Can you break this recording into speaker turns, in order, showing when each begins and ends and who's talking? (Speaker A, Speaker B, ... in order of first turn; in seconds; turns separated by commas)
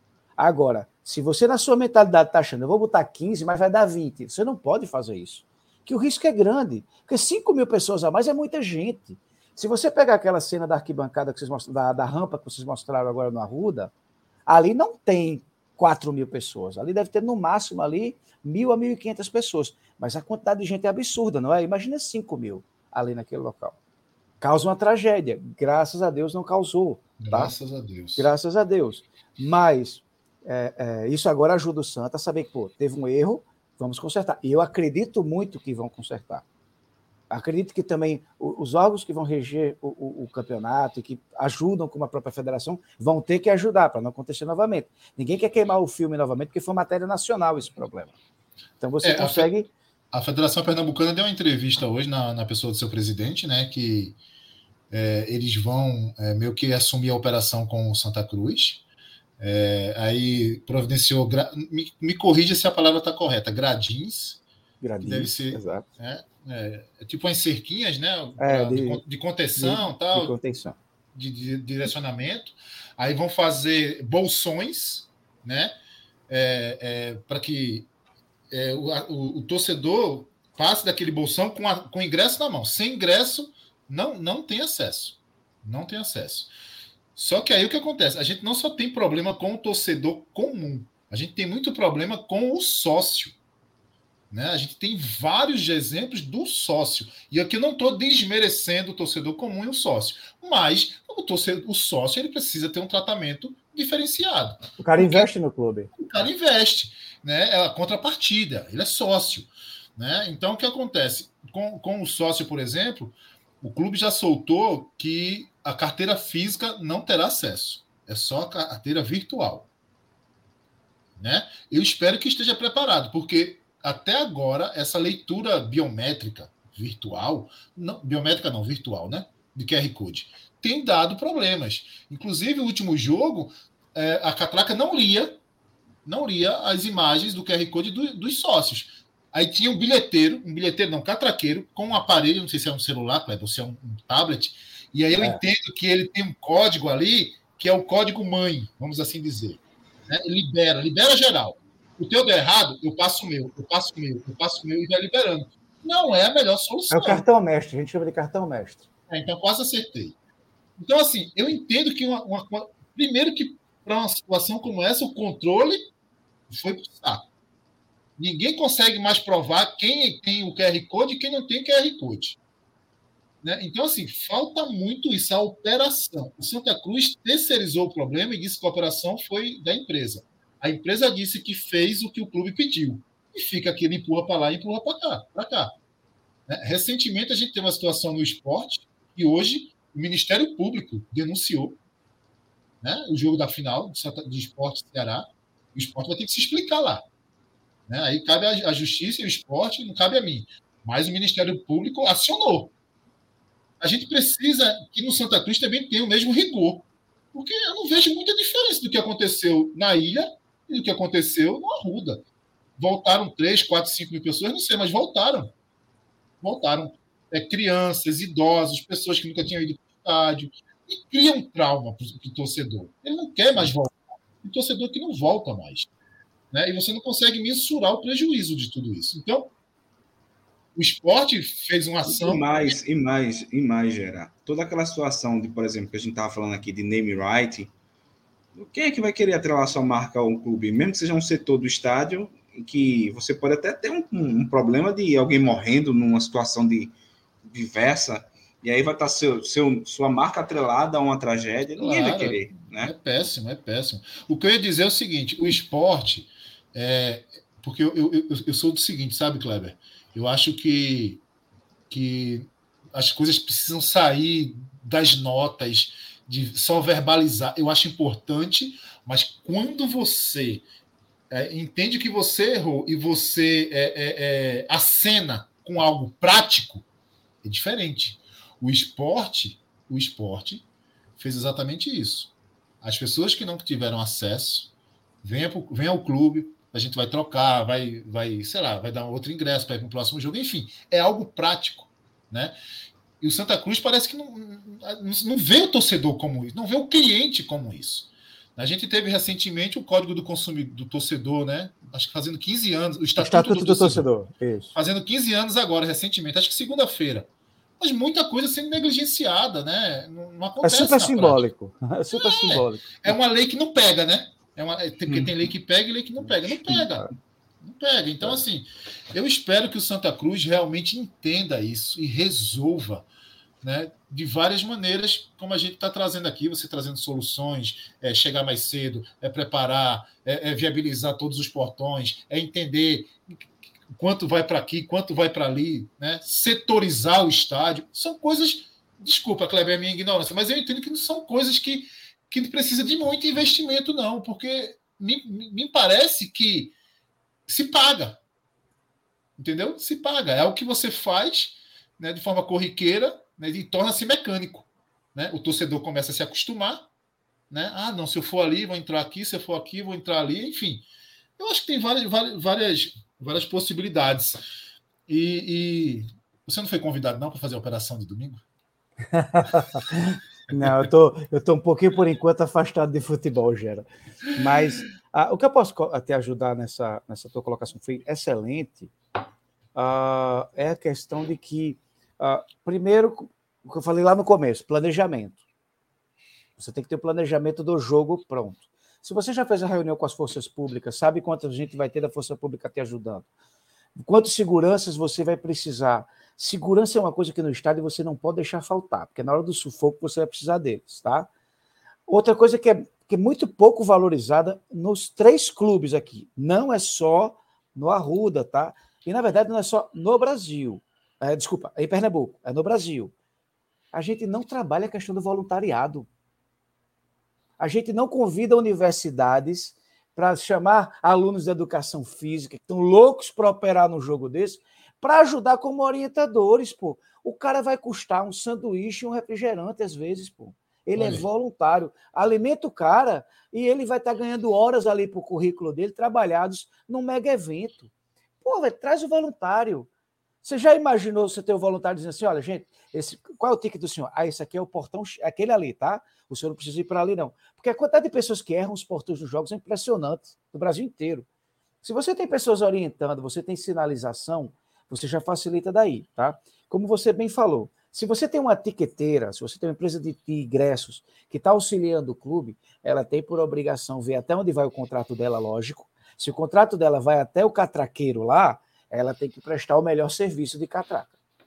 Speaker A: 0.4-13.9, Speaker A: 14.5-23.8, Speaker A: 24.4-27.5, Speaker B: 27.2-28.3, Speaker A: 28.2-36.4, Speaker A: 37.3-48.2, Speaker A: 48.8-49.7, Speaker B: 49.0-49.5, Speaker B: 50.1-54.2, Speaker B: 54.9-58.8, Speaker B: 59.4-64.4, Speaker A: 64.8-65.9, Speaker B: 65.0-70.3, Speaker A: 68.4-69.0, Speaker A: 69.6-70.8, Speaker B: 71.1-75.7, Speaker B: 76.3-77.9, Speaker B: 78.5-86.5, Speaker B: 87.2-93.4, Speaker B: 94.3-105.3, Speaker A: 104.8-105.9, Speaker B: 106.0-119.7, Speaker B: 121.2-135.4, Speaker B: 136.1-157.2, Speaker A: 156.9-158.8, Speaker B: 159.1-160.2, Speaker B: 160.8-165.9, Speaker B: 166.5-167.2, Speaker B: 168.2-172.4, Speaker B: 173.4-185.7, Speaker B: 186.5-191.8, Speaker B: 192.8-197.0, Speaker B: 197.9-202.7, Speaker B: 203.8-212.2, Speaker B: 212.8-215.5, Speaker B: 216.4-225.9, Speaker B: 226.5-229.5, Speaker B: 230.8-232.5, Speaker C: 232.1-237.7, Speaker C: 238.6-246.9, Speaker C: 247.5-252.9, Speaker B: 251.8-261.2, Speaker B: 261.9-270.6, Speaker B: 271.3-276.9, Speaker B: 277.4-280.6, Speaker B: 281.2-284.7, Speaker B: 285.2-292.6, Speaker B: 293.2-304.1, Speaker A: 303.2-304.7, Speaker B: 304.7-307.3, Speaker B: 307.8-311.4, Speaker A: 310.6-313.1, Speaker B: 312.1-323.1, Speaker C: 315.1-315.4, Speaker B: 323.6-333.1, Speaker B: 333.9-346.7, Speaker B: 347.5-348.2, Speaker B: 349.4-356.9, Speaker B: 357.5-360.9, Speaker B: 361.4-364.4, Speaker B: 365.1-368.4, Speaker A: 369.1-378.9, Speaker A: 379.8-385.4, Speaker A: 386.6-393.3, Speaker A: 394.0-401.3, Speaker A: 402.1-413.1, Speaker A: 413.9-416.1, Speaker A: 417.6-437.9, Speaker B: 430.9-431.2, Speaker A: 438.4-439.9, Speaker A: 440.4-451.3, Speaker A: 451.8-471.1